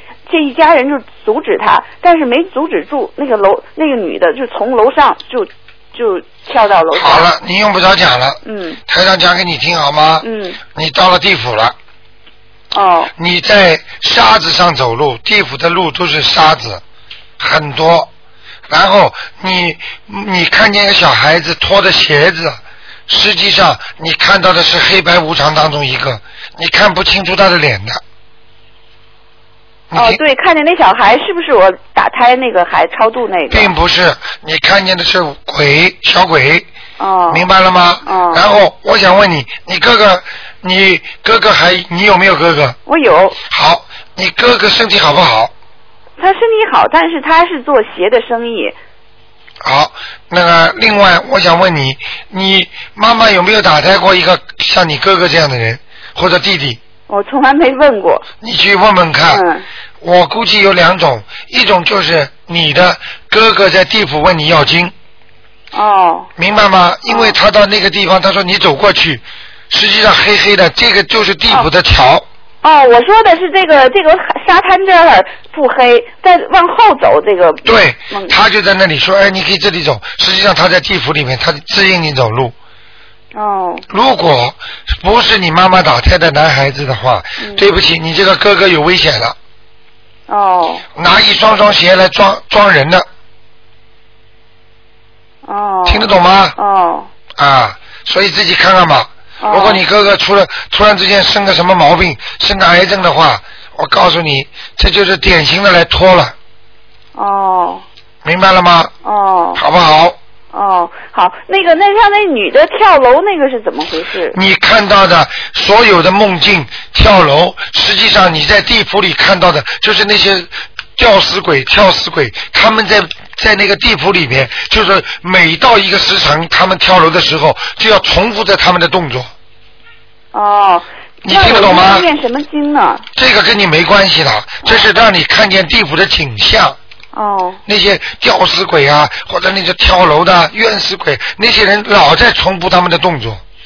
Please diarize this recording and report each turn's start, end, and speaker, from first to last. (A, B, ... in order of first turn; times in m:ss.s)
0:00.3-0:07.3 A
0:06.9-0:11.7 B
0:08.4-0:08.8 A
0:10.2-0:10.6 A
0:12.7-0:13.1 A
0:13.2-0:16.8 B
0:17.4-0:18.1 B
0:18.7-0:28.0 B
0:29.9-0:30.2 B
0:29.9-0:33.7 A
0:33.5-0:36.7 B
0:37.0-0:37.5 A
0:37.3-0:42.8 B
0:38.0-0:38.4 A
0:42.8-0:43.4 A
0:43.5-0:45.5 B
0:46.2-0:48.8 A
0:49.6-0:56.8 B
0:57.1-0:58.2 A
0:58.4-0:59.4 B
0:59.3-0:59.6 A
1:00.0-1:04.9 B
1:05.7-1:06.3 A
1:06.4-1:12.2 B
1:07.1-1:07.4 A
1:12.6-1:18.4 A
1:17.6-1:22.5 B
1:23.3-1:23.8 A
1:23.9-1:29.4 B
1:27.4-1:27.6 A
1:30.3-1:30.8 A
1:31.0-1:33.1 B
1:35.4-1:37.1 A
1:35.8-1:36.6 B
1:37.4-1:46.3 B
1:39.4-1:39.8 A
1:47.1-1:47.8 A
1:48.2-1:48.9 B
1:49.0-1:49.6 A
1:49.6-1:50.2 B
1:50.5-1:54.4 A
1:54.3-2:09.3 B
2:10.3-2:13.0 A
2:11.2-2:12.1 B
2:13.2-2:16.8 B
2:17.1-2:17.6 A
2:17.6-2:23.4 B